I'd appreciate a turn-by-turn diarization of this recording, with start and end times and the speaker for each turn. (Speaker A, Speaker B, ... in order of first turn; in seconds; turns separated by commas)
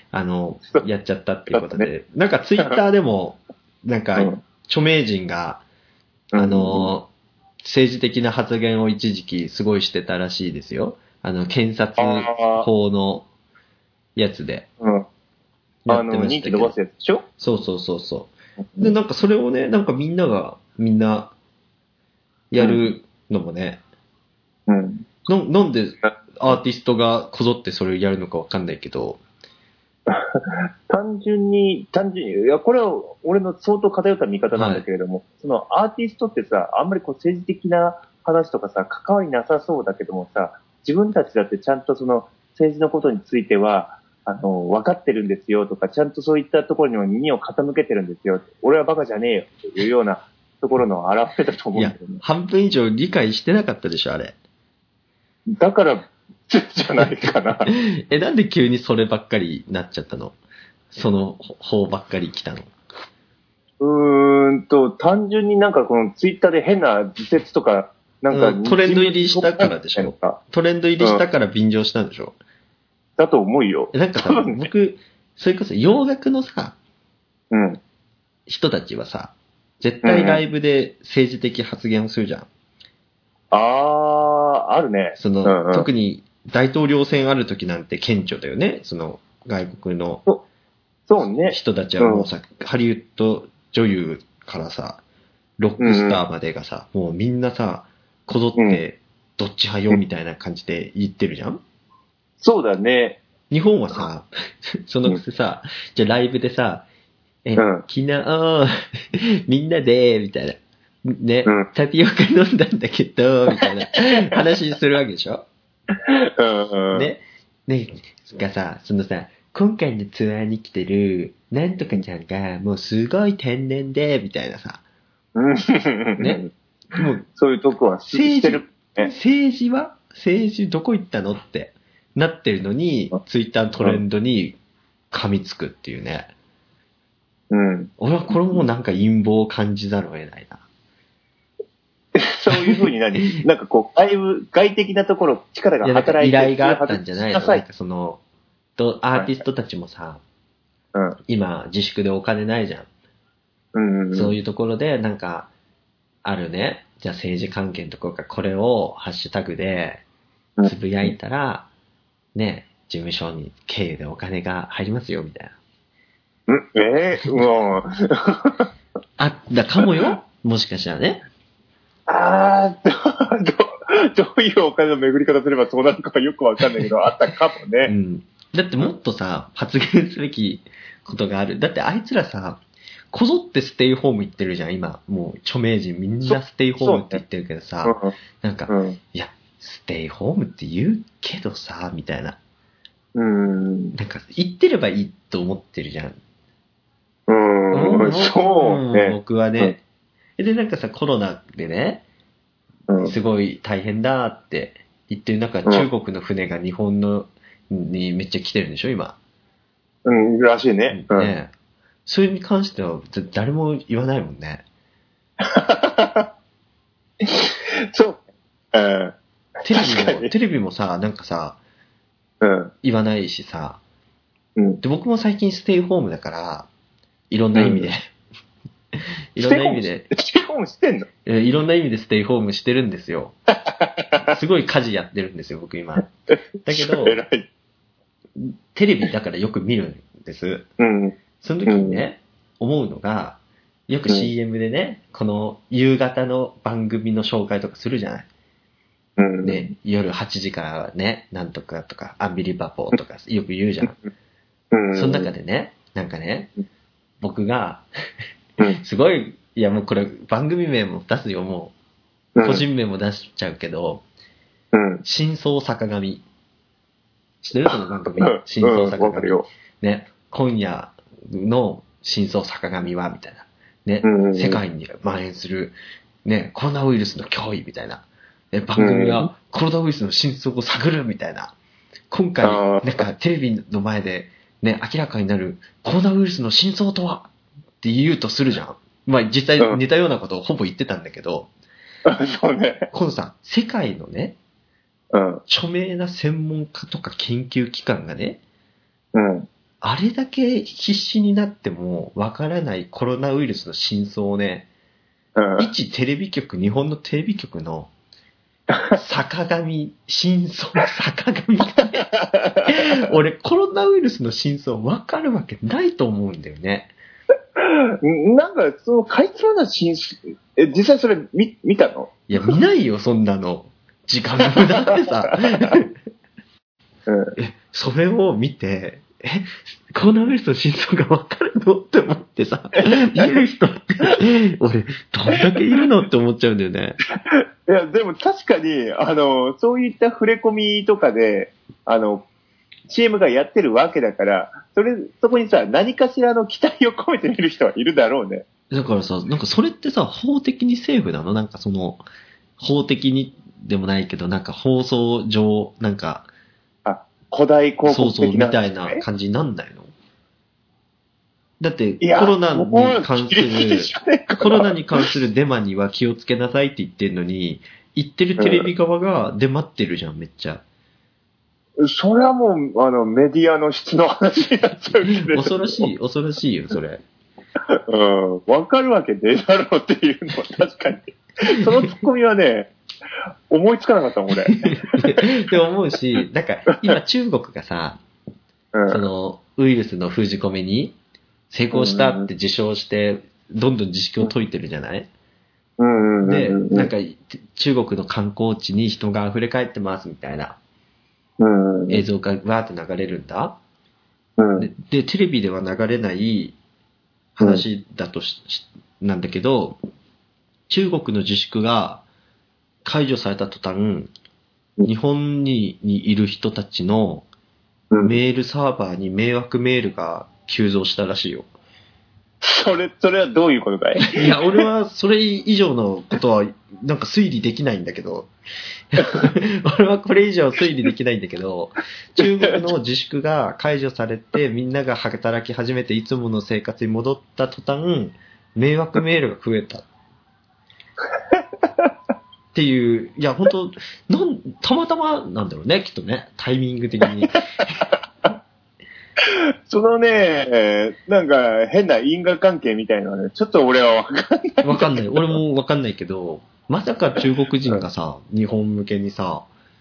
Speaker A: 0.1-5.6, Speaker B: 1.5-1.9, Speaker B: 6.3-6.9, Speaker A: 6.4-7.1, Speaker A: 7.6-13.3, Speaker B: 12.0-12.7, Speaker A: 14.2-14.7, Speaker B: 14.8-15.1, Speaker A: 15.9-16.8, Speaker B: 15.9-17.3, Speaker A: 17.4-21.3, Speaker A: 22.5-23.8, Speaker B: 22.6-22.8, Speaker B: 24.7-25.1, Speaker A: 25.3-29.2, Speaker B: 30.1-52.2, Speaker A: 34.5-34.8, Speaker A: 51.8-54.4, Speaker B: 55.5-57.7, Speaker A: 57.7-60.4, Speaker A: 60.9-62.7, Speaker B: 63.8-70.4, Speaker A: 68.3-72.4, Speaker B: 73.2-74.7, Speaker A: 73.9-76.8, Speaker B: 77.5-77.8, Speaker A: 78.5-82.5, Speaker B: 80.0-80.4, Speaker B: 83.5-85.9, Speaker A: 85.2-90.3, Speaker B: 91.1-92.3, Speaker A: 91.5-95.0, Speaker A: 95.6-101.6, Speaker B: 95.8-96.2, Speaker B: 98.6-98.8, Speaker B: 102.4-103.2, Speaker A: 103.5-104.3, Speaker A: 104.8-106.9, Speaker A: 107.5-115.5, Speaker B: 107.6-107.8, Speaker B: 116.0-117.1, Speaker A: 116.9-124.8, Speaker B: 125.3-126.5, Speaker A: 126.2-126.4, Speaker A: 127.0-127.2, Speaker B: 127.3-129.1, Speaker A: 128.1-134.6, Speaker A: 135.1-136.3, Speaker B: 137.5-137.9, Speaker A: 138.0-140.6, Speaker B: 142.2-147.6, Speaker A: 142.5-143.4, Speaker A: 145.8-148.2, Speaker A: 148.8-150.2, Speaker A: 151.3-152.9, Speaker B: 153.7-154.3, Speaker A: 154.1-155.5, Speaker A: 156.2-160.0, Speaker A: 160.7-161.7, Speaker A: 162.3-165.5, Speaker B: 166.5-168.6, Speaker A: 169.2-171.2, Speaker B: 172.1-177.9, Speaker A: 177.9-192.4, Speaker B: 186.3-187.2, Speaker B: 187.8-188.1, Speaker B: 188.7-189.0, Speaker B: 193.2-194.0, Speaker A: 193.9-196.2, Speaker B: 197.3-199.8, Speaker A: 197.7-199.8, Speaker A: 200.4-202.0, Speaker B: 202.9-203.2, Speaker A: 203.0-209.2, Speaker B: 210.1-211.3, Speaker A: 210.9-211.5, Speaker A: 212.1-214.6, Speaker B: 215.4-216.3, Speaker B: 217.2-218.2, Speaker B: 218.7-219.1, Speaker A: 219.6-221.6, Speaker B: 219.7-220.3, Speaker B: 222.4-222.7, Speaker A: 222.8-223.8, Speaker B: 224.6-224.8, Speaker A: 224.8-226.7, Speaker A: 227.3-228.0, Speaker B: 227.6-227.9, Speaker A: 229.0-230.1, Speaker B: 229.4-231.1, Speaker A: 231.2-233.4, Speaker B: 233.7-234.2, Speaker A: 234.1-236.1, Speaker A: 236.7-237.2, Speaker B: 236.7-237.5, Speaker A: 238.4-240.7, Speaker B: 240.8-242.0, Speaker A: 241.4-248.3, Speaker B: 249.2-249.7, Speaker A: 249.4-254.0, Speaker B: 254.7-255.3, Speaker A: 254.9-256.5, Speaker A: 257.2-257.9, Speaker A: 258.8-261.7, Speaker B: 262.4-262.7, Speaker A: 262.4-264.0, Speaker B: 264.7-265.0, Speaker A: 265.0-266.2, Speaker A: 267.4-281.6, Speaker B: 268.2-269.5, Speaker B: 274.0-274.6, Speaker B: 278.8-279.3, Speaker A: 282.1-287.3, Speaker B: 282.4-283.1, Speaker A: 287.8-291.5, Speaker B: 292.1-292.9, Speaker A: 292.9-294.4, Speaker B: 295.1-295.4, Speaker A: 295.5-298.4, Speaker B: 299.1-299.5, Speaker A: 299.8-304.7, Speaker B: 305.4-305.7, Speaker A: 305.6-307.9, Speaker A: 308.9-312.1, Speaker B: 312.1-312.7, Speaker A: 312.7-316.9, Speaker B: 317.6-322.2, Speaker A: 322.3-325.9, Speaker B: 324.5-325.1, Speaker B: 327.1-327.3, Speaker A: 327.4-337.0, Speaker B: 337.2-342.3, Speaker B: 342.9-348.4, Speaker A: 348.7-352.0, Speaker A: 352.6-356.3, Speaker B: 356.9-359.0, Speaker A: 357.9-359.9, Speaker A: 361.6-370.6, Speaker B: 362.0-365.1, Speaker B: 368.4-368.7, Speaker B: 371.8-375.9, Speaker A: 375.0-377.0, Speaker B: 377.7-382.7, Speaker B: 383.5-385.2, Speaker A: 384.3-388.0, Speaker B: 388.7-389.0, Speaker A: 388.9-391.0, Speaker A: 391.5-395.1, Speaker B: 391.7-392.3, Speaker B: 395.8-396.9, Speaker A: 396.2-400.6, Speaker B: 401.4-402.0, Speaker A: 401.9-403.6, Speaker B: 404.4-404.7, Speaker A: 404.6-406.6, Speaker A: 407.4-409.8, Speaker A: 410.7-412.0, Speaker A: 412.9-414.1, Speaker A: 414.8-417.3, Speaker B: 417.9-418.2, Speaker A: 418.0-421.5, Speaker B: 422.4-424.6, Speaker A: 424.0-428.3, Speaker A: 428.9-439.9, Speaker B: 432.2-432.6, Speaker B: 441.3-441.9, Speaker A: 442.5-447.8, Speaker B: 449.2-455.4, Speaker A: 454.6-459.5